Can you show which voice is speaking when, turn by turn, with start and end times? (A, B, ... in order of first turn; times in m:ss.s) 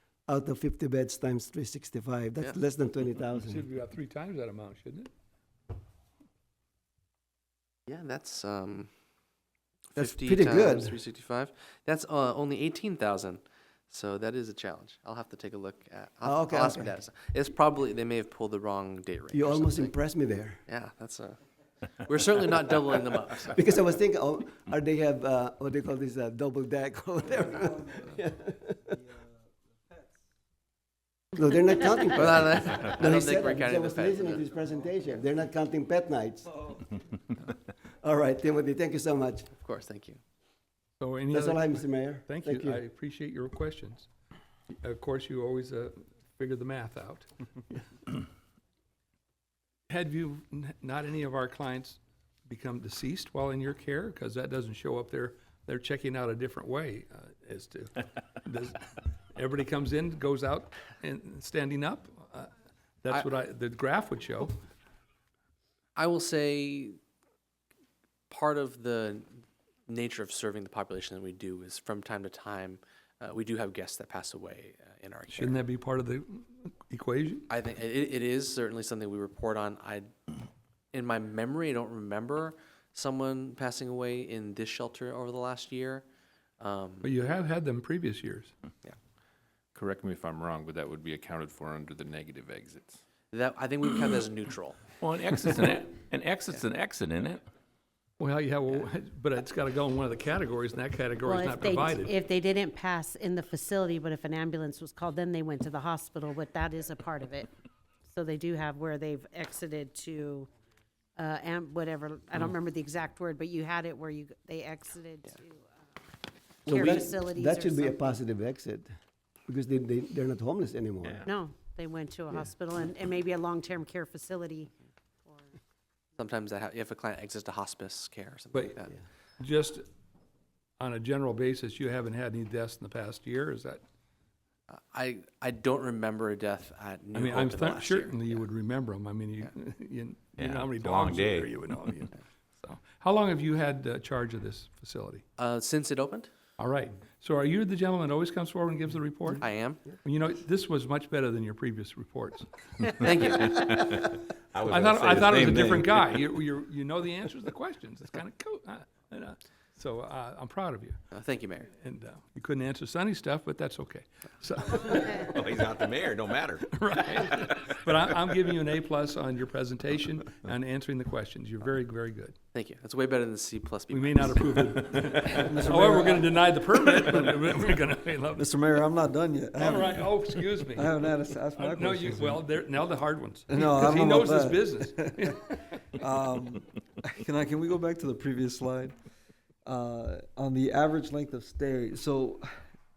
0:00.3-0:03.6 A
0:03.4-0:05.1 B
0:07.9-0:08.9 C
0:09.9-0:19.9 C
0:10.0-0:11.0 A
0:16.2-0:16.9 A
0:19.3-0:20.6 A
0:20.7-0:21.4 C
0:22.0-0:23.6 C
0:23.5-0:29.0 A
0:27.4-0:28.2 D
0:29.0-0:29.2 D
0:31.4-0:36.7 A
0:32.1-0:34.5 C
0:38.0-0:39.5 A
0:39.5-0:40.2 C
0:41.0-0:44.1 B
0:41.3-0:42.8 A
0:44.8-0:47.8 B
0:49.9-0:58.8 B
0:59.4-1:02.5 B
1:03.0-1:04.6 B
1:06.0-1:07.0 C
1:08.3-1:15.6 C
1:15.3-1:17.5 B
1:17.5-1:20.1 C
1:20.9-1:26.0 C
1:26.6-1:27.1 C
1:27.0-1:28.5 B
1:29.7-1:33.0 E
1:33.3-1:34.8 C
1:35.0-1:37.4 F
1:38.2-1:42.1 B
1:41.2-1:47.5 G
1:48.1-1:50.5 G
1:51.2-1:55.8 G
1:56.7-1:58.2 G
1:56.7-1:58.9 A
1:59.5-2:01.3 A
2:01.2-2:04.7 G
2:06.2-2:09.0 C
2:09.4-2:09.9 B
2:10.8-2:13.8 B
2:14.7-2:18.4 C
2:17.1-2:25.2 B
2:20.4-2:21.5 F
2:25.4-2:26.3 C
2:26.6-2:29.4 B
2:29.4-2:29.8 C
2:30.0-2:33.8 B
2:33.0-2:33.6 C
2:33.4-2:36.1 F
2:34.7-2:41.0 B
2:41.1-2:41.7 C
2:41.7-2:45.4 B
2:44.9-2:46.7 F
2:46.7-2:52.4 B
2:52.5-2:54.3 C
2:53.9-2:58.4 B
2:55.3-2:56.4 D
2:58.4-3:02.5 D
2:59.6-3:05.8 B
3:03.5-3:05.3 D
3:05.9-3:09.0 D
3:09.7-3:12.6 D